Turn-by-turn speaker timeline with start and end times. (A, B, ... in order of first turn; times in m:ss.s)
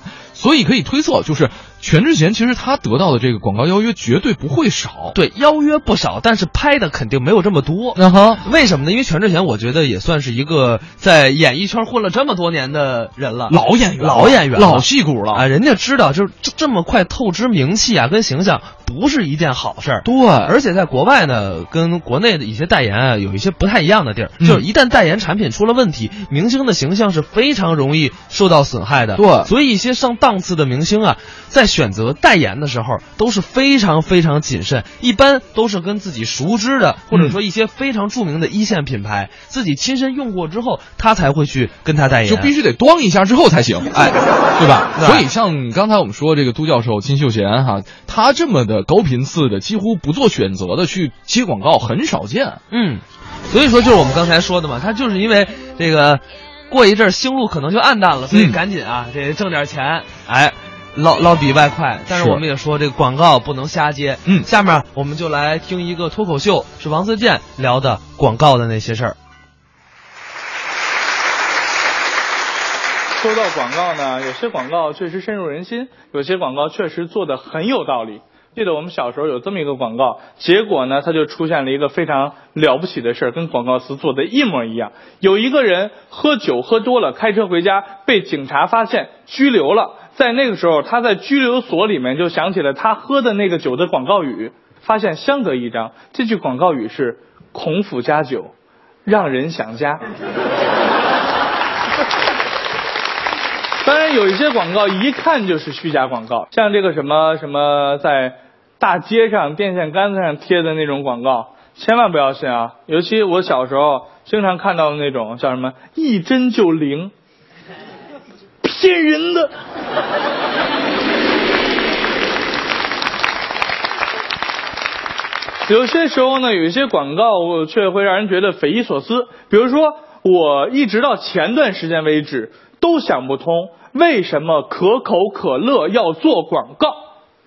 0:00.3-0:05.2 A
0:05.1-0:42.5 B
0:08.0-0:08.4 A
0:13.5-0:15.4 A
0:20.0-0:20.5 A
0:24.4-0:24.6 A
0:29.2-0:29.5 A
0:37.1-0:37.4 A
0:42.2-0:52.6 A
0:43.9-0:44.2 B
0:44.9-0:45.3 B
0:52.7-1:09.2 B
0:58.3-0:58.6 A
1:02.1-1:02.4 A
1:13.2-1:38.5 C
1:39.0-1:40.0 C
1:43.8-1:57.1 C
1:58.6-1:59.5 C
2:05.6-2:17.0 C